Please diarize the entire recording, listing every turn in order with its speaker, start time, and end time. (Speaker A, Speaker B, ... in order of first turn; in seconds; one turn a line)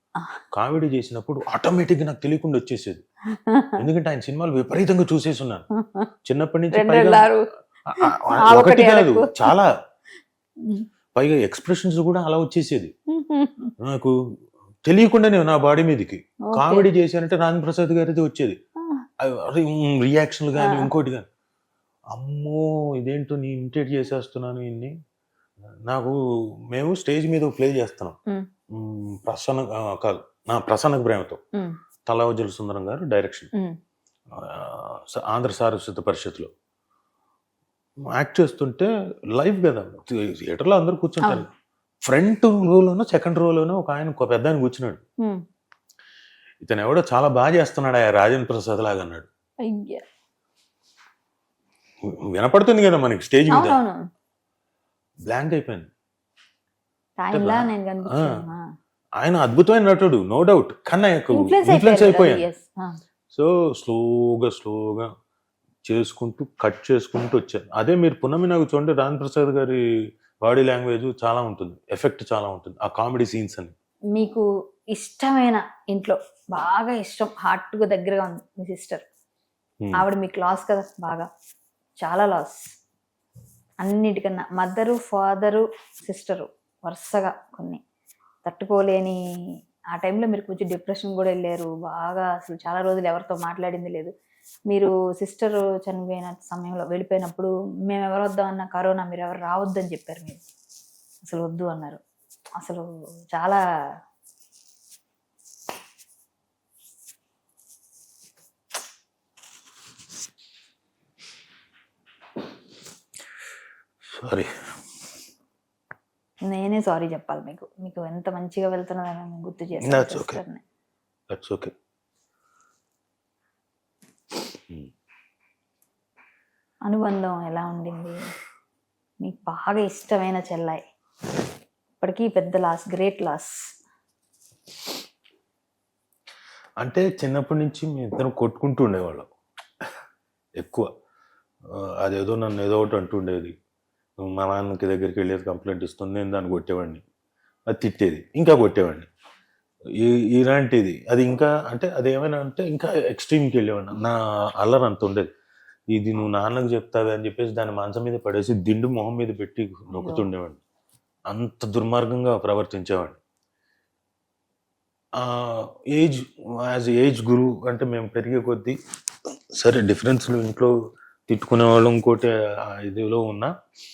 Speaker A: 0.5-3.0
Speaker B: 3.4-3.8
Speaker A: 3.8-5.7
Speaker B: 5.8-6.1
Speaker A: 6.2-7.3
Speaker B: 6.7-7.5
Speaker A: 7.9-9.7
Speaker B: 8.0-9.5
Speaker A: 11.1-12.9
Speaker B: 13.1-13.7
Speaker A: 13.8-14.2
Speaker A: 14.9-18.6
Speaker B: 16.4-16.9
Speaker B: 18.8-19.1
Speaker A: 19.2-21.2
Speaker B: 20.6-20.9
Speaker A: 22.1-24.9
Speaker A: 25.9-26.2
Speaker A: 26.7-28.2
Speaker A: 28.7-31.4
Speaker A: 32.1-33.5
Speaker A: 34.4-36.5
Speaker A: 38.1-41.5
Speaker B: 41.2-41.5
Speaker A: 42.0-45.0
Speaker A: 46.6-49.3
Speaker B: 49.7-50.0
Speaker A: 52.1-53.8
Speaker B: 53.5-54.0
Speaker A: 55.3-55.9
Speaker B: 57.2-58.6
Speaker A: 57.3-58.4
Speaker A: 59.2-62.5
Speaker B: 61.3-63.0
Speaker A: 63.3-65.1
Speaker A: 65.8-69.8
Speaker A: 70.4-73.7
Speaker B: 74.2-79.0
Speaker B: 80.0-81.3
Speaker B: 82.0-82.7
Speaker B: 83.8-87.8
Speaker B: 88.4-89.2
Speaker B: 89.9-94.1
Speaker B: 94.7-100.4
Speaker B: 101.2-102.0
Speaker B: 102.6-103.6
Speaker A: 114.1-114.5
Speaker B: 116.4-120.6
Speaker A: 119.8-120.4
Speaker A: 121.3-121.7
Speaker B: 126.9-128.2
Speaker B: 129.2-130.8
Speaker B: 132.0-133.6
Speaker A: 136.8-139.3
Speaker A: 140.6-140.9
Speaker A: 141.7-143.5
Speaker A: 144.2-147.0
Speaker A: 147.7-149.1
Speaker A: 150.0-155.3
Speaker A: 155.9-160.6
Speaker B: 159.9-160.3
Speaker A: 161.3-163.2
Speaker A: 165.2-168.8
Speaker A: 169.6-170.7
Speaker A: 171.3-173.5